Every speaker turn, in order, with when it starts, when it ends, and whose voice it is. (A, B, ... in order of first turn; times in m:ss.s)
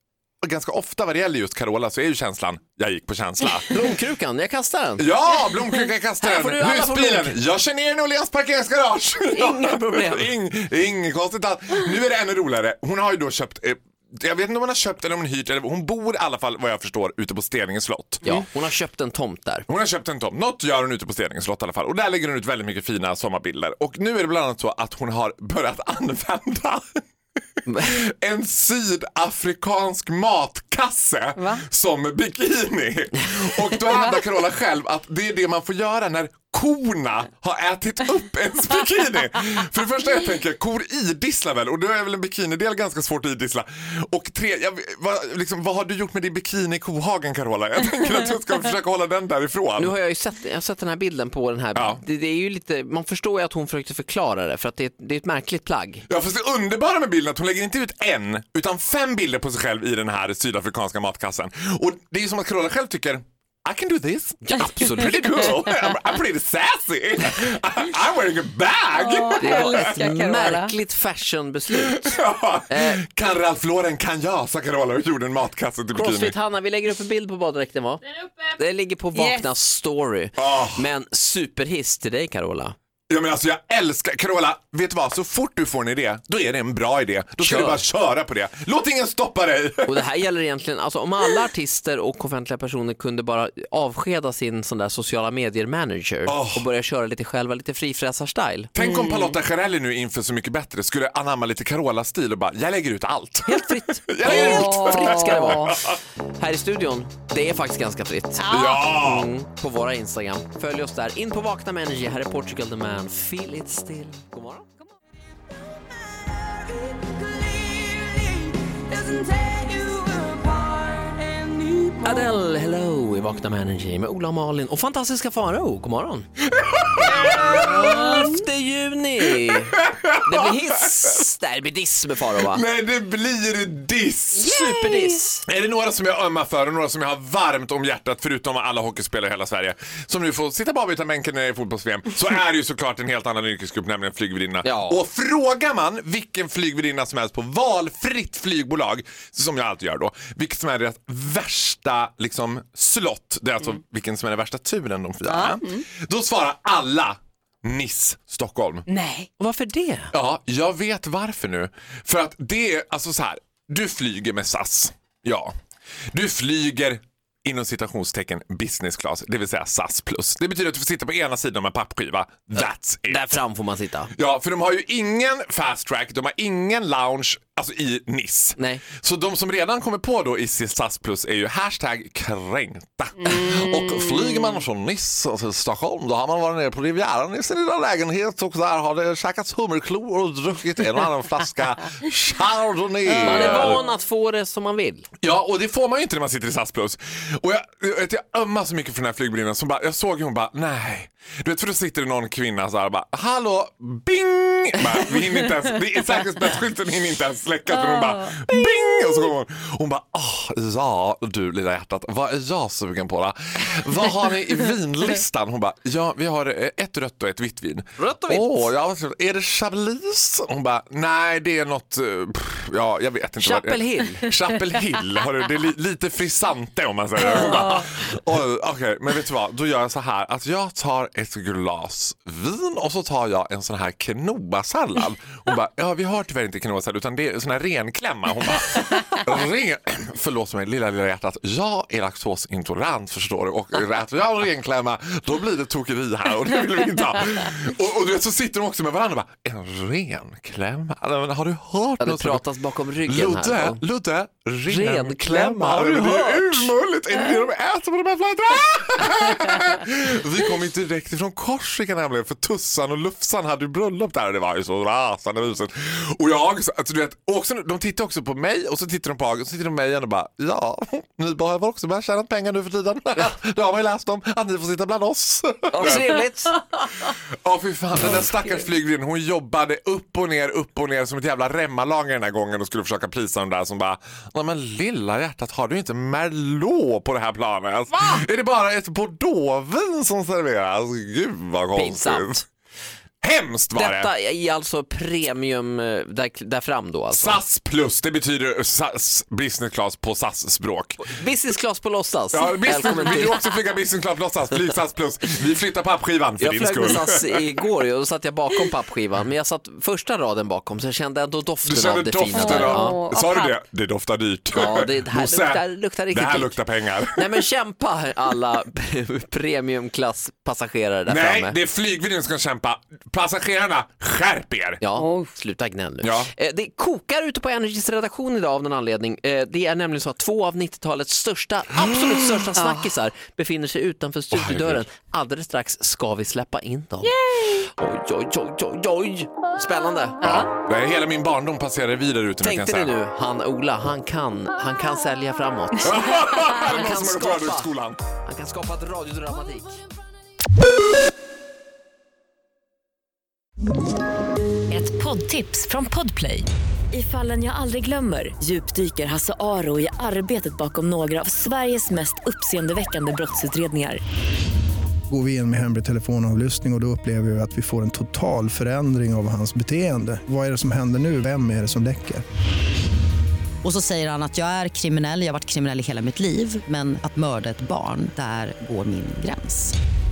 0:00.4-0:03.9 A
0:03.6-0:05.1 B
0:05.0-0:18.4 A
0:06.2-0:07.4 B
0:09.3-0:10.3 B
0:18.2-0:19.6 B
0:19.7-0:26.8 A
0:27.7-0:27.9 B
0:27.8-0:49.9 A
0:31.4-0:31.6 C
0:49.8-0:56.0 B
0:51.7-0:52.0 A
0:56.1-1:10.0 A
1:04.4-1:05.5 B
1:09.0-1:10.7 C
1:09.4-1:12.1 B
1:11.7-1:16.4 A
1:12.7-1:13.0 B
1:15.9-1:22.8 B
1:19.1-1:19.5 C
1:20.4-1:20.8 A
1:23.1-1:30.0 A
1:27.4-1:27.8 B
1:29.9-1:38.7 B
1:36.2-1:36.7 A
1:38.7-1:46.0 A
1:38.8-1:39.3 C
1:43.5-1:54.7 B
1:44.2-1:45.7 C
1:48.4-1:48.8 C
1:48.5-1:49.3 A
1:59.0-2:00.2 B
2:00.9-2:01.8 C
2:01.9-2:06.3 B
2:06.4-2:08.2 A
2:07.0-2:12.6 B
2:08.0-2:08.3 C
2:09.3-2:11.2 A
2:12.3-2:14.6 A
2:14.4-2:15.4 B
2:14.5-2:15.2 C
2:15.4-2:38.8 A
2:24.6-2:25.0 B
2:35.3-2:35.8 C
2:38.9-2:39.3 C
2:39.4-2:40.1 B
2:40.1-2:45.5 A
2:46.1-2:53.4 A
2:52.6-2:54.1 B
2:54.1-3:13.8 A
3:13.1-3:15.1 B
3:15.2-4:12.4 A
3:38.0-3:38.7 B
3:43.4-3:44.3 B
4:12.0-4:13.8 B
4:13.0-4:36.1 A
4:14.7-4:16.7 B
4:35.7-4:36.6 B
4:37.0-4:52.4 A
4:51.7-4:52.4 B
4:53.2-4:54.1 A
4:53.7-4:57.4 B
4:57.1-5:01.0 A
5:01.0-5:03.6 B
5:02.3-5:07.4 A
5:06.4-5:13.0 B
5:11.6-5:17.4 A
5:12.4-5:13.6 C
5:14.5-5:16.6 B
5:17.1-5:21.6 B
5:21.1-5:24.8 A
5:24.8-5:40.4 B
5:25.0-5:25.3 C
5:26.0-5:26.3 A
5:32.6-5:32.8 C
5:34.3-5:34.8 A
5:40.2-5:43.0 A
5:42.4-5:47.7 B
5:45.8-5:48.0 A
5:48.2-5:49.8 B
5:54.7-6:04.0 D
6:05.1-6:12.2 E
6:13.6-6:19.8 F